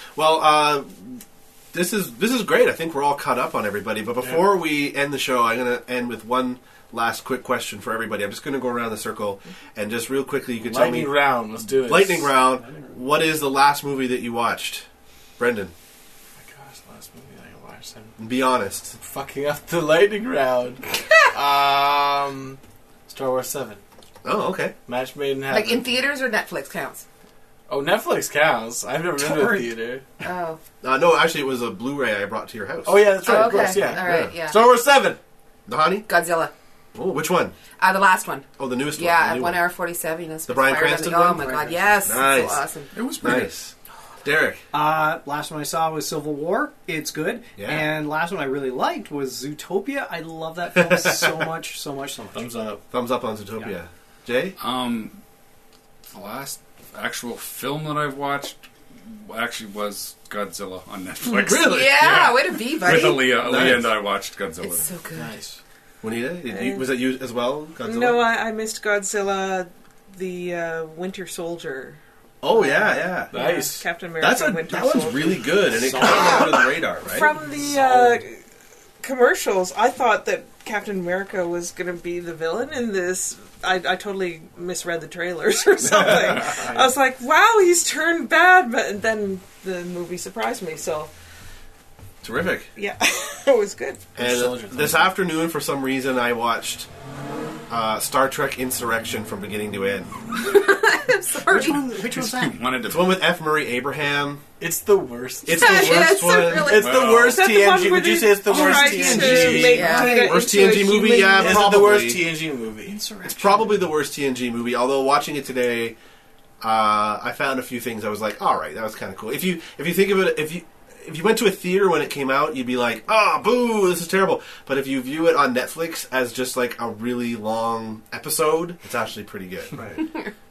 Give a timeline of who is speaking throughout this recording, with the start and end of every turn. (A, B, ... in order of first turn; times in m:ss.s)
0:00.2-0:11.2 A
0:10.6-0:12.5 B
0:11.7-0:14.8 A
0:15.4-0:15.7 A
0:16.4-0:18.2 B
0:18.2-0:18.9 A
0:18.9-0:23.8 B
0:24.2-0:24.7 A
0:24.8-0:25.9 B
0:25.5-0:27.0 C
0:27.7-0:30.0 B
0:29.2-0:29.7 D
0:30.2-0:30.6 C
0:30.8-0:33.0 A
0:32.8-0:35.2 B
0:33.2-0:34.7 C
0:33.8-0:34.3 A
0:35.7-0:36.1 A
0:36.1-0:36.5 C
0:36.9-0:37.6 A
0:37.7-0:42.9 C
0:38.6-0:39.6 A
0:40.5-0:42.6 A
0:42.9-0:43.5 E
0:43.2-0:44.6 A
0:44.7-0:52.5 D
0:47.6-0:47.9 A
0:50.7-0:51.5 A
0:52.3-0:52.8 B
0:52.9-0:54.5 A
0:54.6-0:55.2 E
0:56.1-1:04.9 E
1:01.3-1:02.3 A
1:01.4-1:03.5 C
1:03.4-1:03.9 A
1:04.6-1:05.3 C
1:05.1-1:05.6 B
1:06.0-1:08.2 A
1:06.5-1:06.8 F
1:07.8-1:12.0 F
1:12.4-1:13.3 A
1:13.2-1:18.4 F
1:13.3-1:13.8 B
1:14.2-1:17.3 A
1:17.6-1:18.2 B
1:19.0-1:31.1 F
1:26.4-1:26.9 B
1:32.2-1:32.7 A
1:32.8-1:34.0 F
1:34.2-1:36.9 A
1:34.2-1:35.1 B
1:37.7-1:40.1 A
1:40.3-1:41.9 C
1:41.4-1:42.6 D
1:41.7-1:43.2 E
1:42.8-1:44.4 A
1:44.6-1:50.0 B
1:45.4-1:46.8 A
1:45.4-1:47.0 C
1:46.7-1:47.4 E
1:47.1-1:51.3 F
1:48.5-1:50.0 D
1:49.4-1:51.2 C
1:49.8-1:52.2 A
1:51.2-1:53.0 B
1:52.8-1:53.9 D
1:53.2-1:56.0 A
1:56.6-2:09.9 A
2:09.7-2:10.0 B